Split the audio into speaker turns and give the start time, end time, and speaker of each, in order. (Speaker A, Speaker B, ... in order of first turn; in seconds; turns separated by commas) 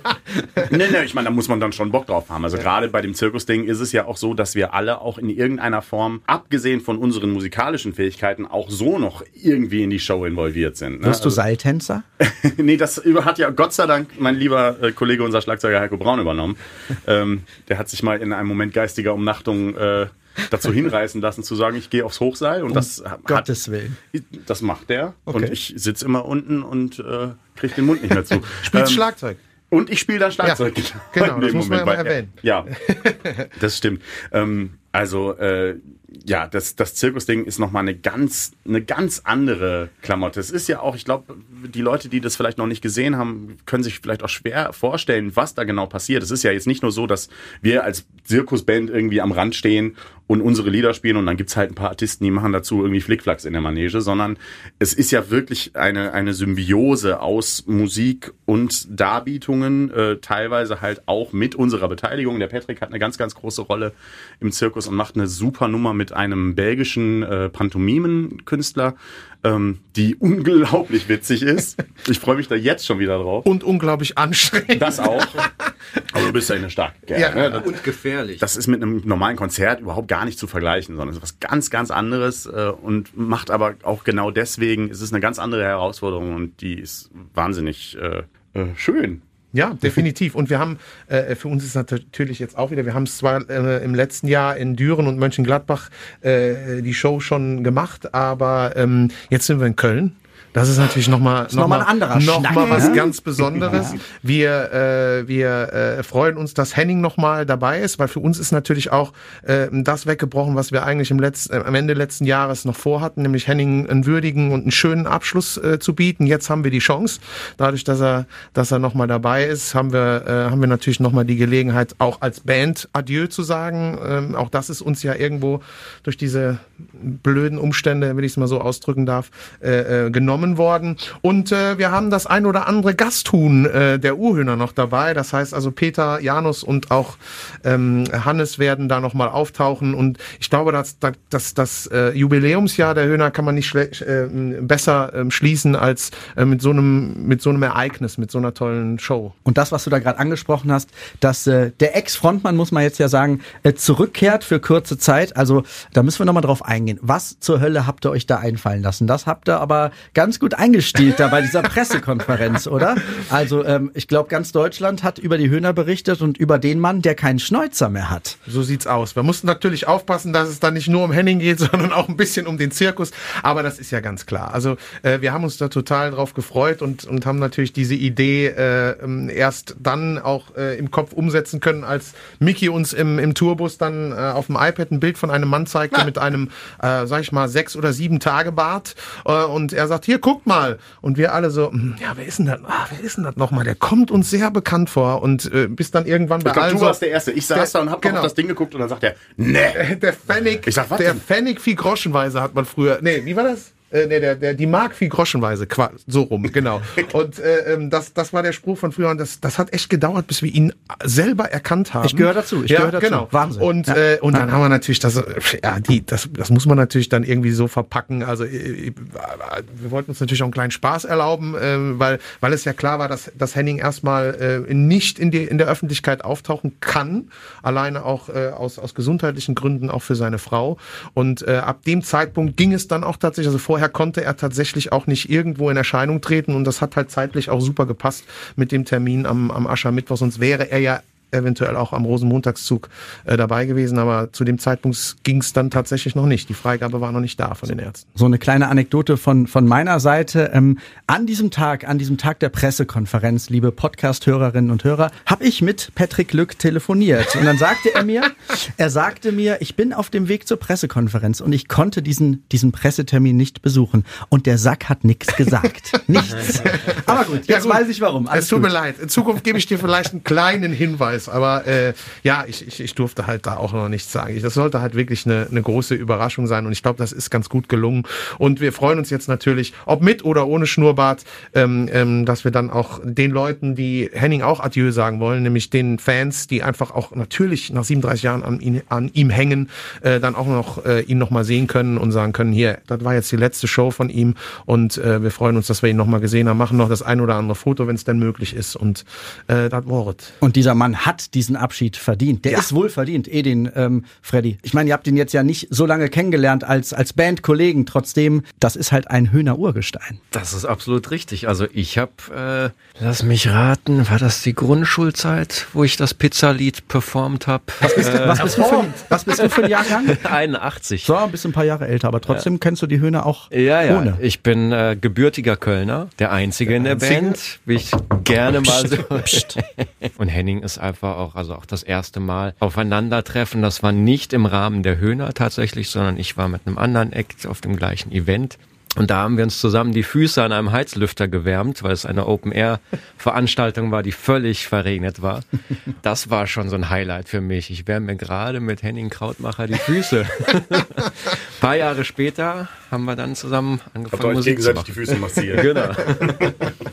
Speaker A: 0.6-11.4, Speaker B: 11.0-12.0, Speaker A: 12.2-23.4, Speaker B: 22.7-24.0, Speaker A: 24.1-29.0, Speaker B: 25.3-25.5, Speaker C: 28.6-29.4, Speaker A: 29.7-32.7, Speaker C: 31.1-33.5, Speaker A: 33.6-73.5, Speaker C: 73.4-75.7, Speaker A: 74.7-75.4, Speaker A: 76.1-77.8, Speaker C: 77.1-77.7, Speaker D: 77.6-78.4, Speaker A: 78.4-89.2, Speaker C: 89.5-149.3, Speaker B: 101.5-103.0, Speaker B: 103.6-104.0, Speaker B: 149.4-168.4, Speaker C: 168.5-197.0, Speaker A: 196.4-199.9, Speaker C: 197.5-198.3, Speaker C: 199.7-248.1, Speaker A: 200.6-201.2, Speaker B: 212.0-214.0, Speaker B: 248.2-268.7, Speaker C: 266.2-300.4, Speaker B: 300.4-310.2, Speaker D: 310.3-318.6, Speaker B: 317.9-320.3, Speaker C: 317.9-319.1, Speaker D: 319.6-321.1, Speaker B: 321.0-324.2, Speaker D: 323.5-345.4, Speaker C: 326.8-327.4, Speaker B: 328.6-329.6, Speaker D: 346.0-354.9, Speaker A: 354.1-356.6, Speaker D: 355.5-356.7